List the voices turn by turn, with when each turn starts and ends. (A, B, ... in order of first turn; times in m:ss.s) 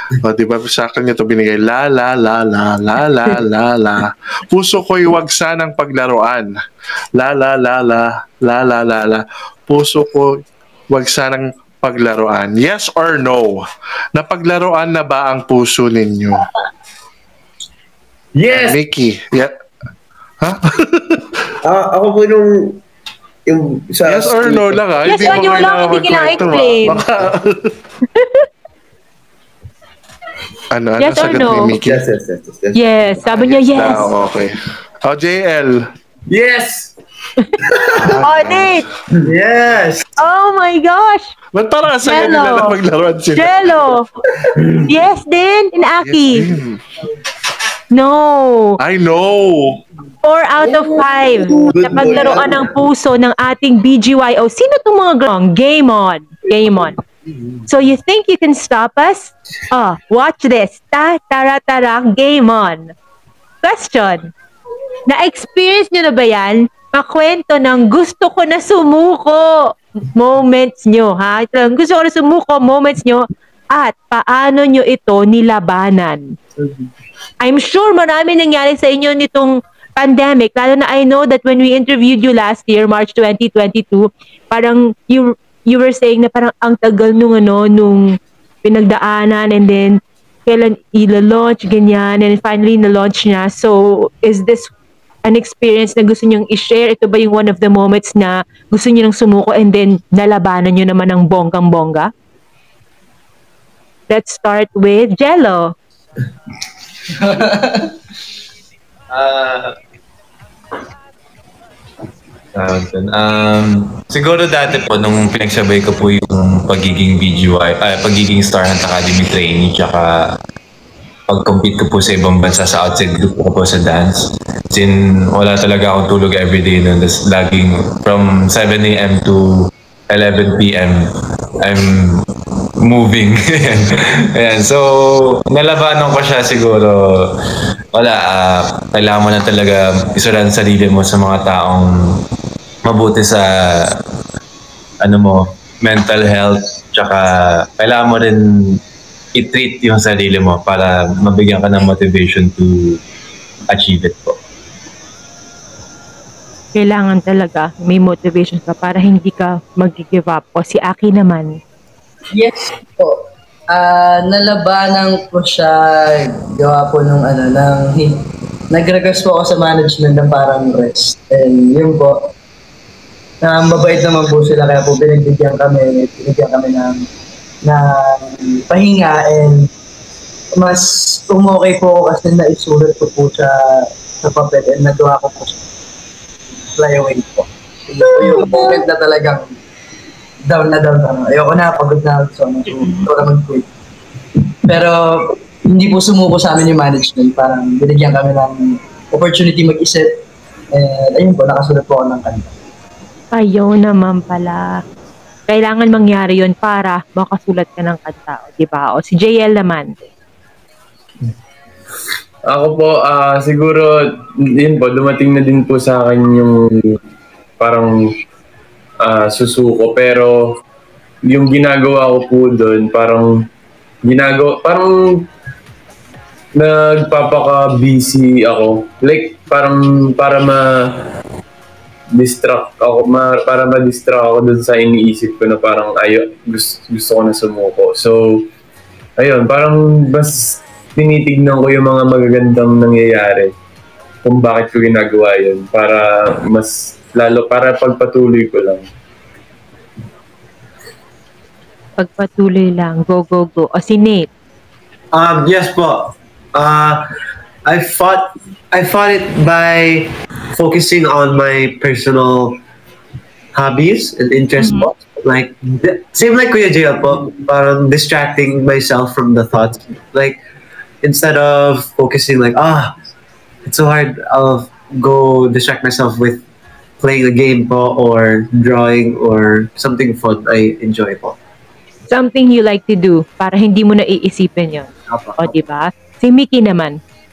0:00.2-0:06.5 A
0:07.2-0:10.3 A
0:10.9-0:13.6 A
0:14.2-0:16.4 A
0:18.3-0:18.8 B
0:18.5-0:19.5 A
0:20.4-0:21.5 A
0:21.6-0:22.8 C
0:23.4-0:25.2 C
0:24.0-0:27.7 A
0:25.0-0:27.0 D
0:30.7-0:32.0 A
0:31.0-0:31.7 D
0:31.8-0:32.9 C
0:32.7-0:34.1 D
0:33.3-0:34.5 A
0:35.0-0:35.9 A
0:36.3-0:36.9 B
0:37.9-0:38.8 A
0:38.2-0:38.9 D
0:39.2-0:39.7 C
0:39.3-0:40.0 E
0:40.2-0:41.3 D
0:41.5-0:43.5 A
0:42.0-0:42.8 D
0:43.3-0:44.0 D
0:44.7-0:46.5 D
0:46.0-0:46.8 A
0:47.9-0:48.8 D
0:48.8-0:49.8 A
0:50.2-0:57.0 D
0:50.7-0:52.7 C
0:57.7-1:02.9 D
1:03.6-1:04.3 D
1:05.1-1:16.4 D
1:17.4-1:34.7 D
1:35.2-1:42.1 D
1:44.1-1:45.7 D
1:49.1-1:49.7 F
1:52.5-2:00.4 F
2:01.3-2:11.1 F
2:11.6-2:12.2 F
2:12.8-2:17.3 F
2:17.9-2:22.2 F
2:22.8-2:24.0 F
2:25.0-2:28.8 F
2:29.3-2:33.0 F
2:33.7-2:34.4 F
2:36.7-2:41.6 D
2:42.3-2:52.3 G
2:53.4-2:57.1 G
2:57.6-2:59.7 G
3:00.5-3:05.6 G
3:06.7-3:09.5 G
3:10.5-3:13.7 G
3:14.6-3:20.1 G
3:20.7-3:22.5 G
3:23.3-3:24.8 D
3:25.5-3:29.9 D
3:32.5-3:36.6 B
3:37.6-3:38.0 B
3:39.0-3:40.4 B
3:41.2-3:43.4 B
3:44.0-3:45.2 B
3:46.6-3:50.7 B
3:52.2-3:58.4 B
3:59.2-4:03.5 B
4:04.2-4:08.8 B
4:12.0-4:14.3 D
4:15.1-4:17.0 E
4:17.6-4:22.6 E
4:23.5-4:30.4 E
4:24.6-4:24.9 D
4:31.0-4:32.9 E
4:33.6-4:36.4 E
4:37.0-4:41.4 E
4:42.1-4:47.0 D